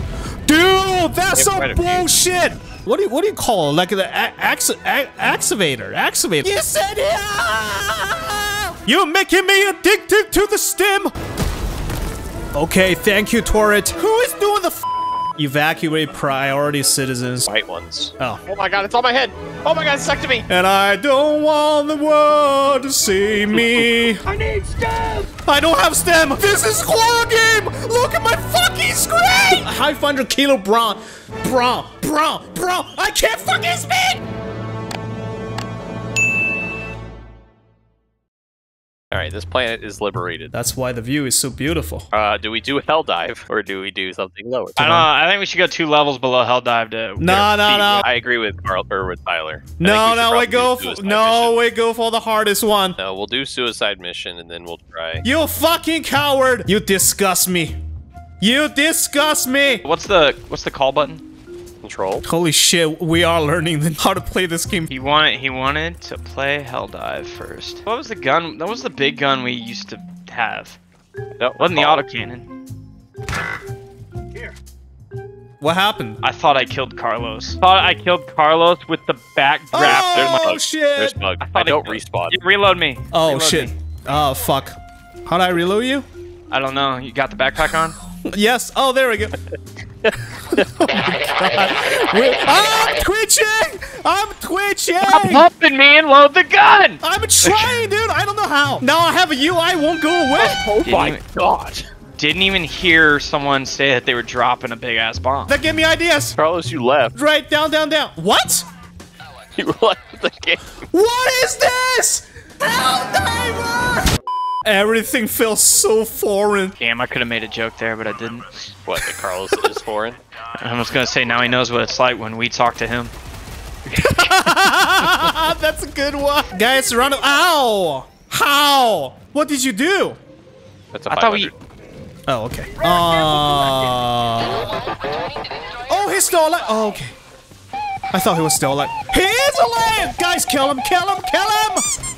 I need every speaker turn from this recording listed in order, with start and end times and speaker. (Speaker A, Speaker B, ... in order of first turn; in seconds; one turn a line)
Speaker A: 0.5-11.1
Speaker B: 1.3-2.1
Speaker A: 12.6-14.8
Speaker A: 15.4-17.5
Speaker B: 17.5-20.4
Speaker A: 20.5-24.3
Speaker C: 24.3-25.3
Speaker A: 25.4-34.2
Speaker B: 39.1-40.5
Speaker A: 40.5-42.1
Speaker B: 42.1-45.1
Speaker C: 44.8-47.9
Speaker A: 47.2-48.0
Speaker B: 47.6-51.6
Speaker A: 49.8-53.0
Speaker B: 53.0-55.2
Speaker A: 55.2-57.8
Speaker A: 58.4-59.8
Speaker C: 59.8-61.2
Speaker B: 61.8-62.2
Speaker A: 62.2-64.9
Speaker C: 64.9-70.8
Speaker B: 71.4-72.0
Speaker C: 71.6-72.5
Speaker A: 75.6-76.2
Speaker C: 76.2-80.5
Speaker A: 79.7-81.2
Speaker B: 79.8-82.4
Speaker C: 81.4-83.7
Speaker A: 83.1-86.1
Speaker C: 86.5-88.0
Speaker A: 88.2-89.3
Speaker A: 90.5-95.5
Speaker C: 95.0-97.7
Speaker A: 97.0-100.6
Speaker B: 100.4-101.9
Speaker C: 100.8-101.2
Speaker C: 102.2-105.6
Speaker A: 105.5-106.4
Speaker B: 106.4-107.2
Speaker A: 107.1-108.7
Speaker B: 109.6-110.8
Speaker A: 110.9-114.0
Speaker A: 114.7-116.8
Speaker C: 116.8-118.8
Speaker B: 118.9-120.2
Speaker C: 120.5-123.1
Speaker A: 123.9-130.2
Speaker B: 130.9-131.6
Speaker C: 131.1-131.5
Speaker A: 132.3-134.7
Speaker A: 135.9-137.2
Speaker A: 138.1-141.9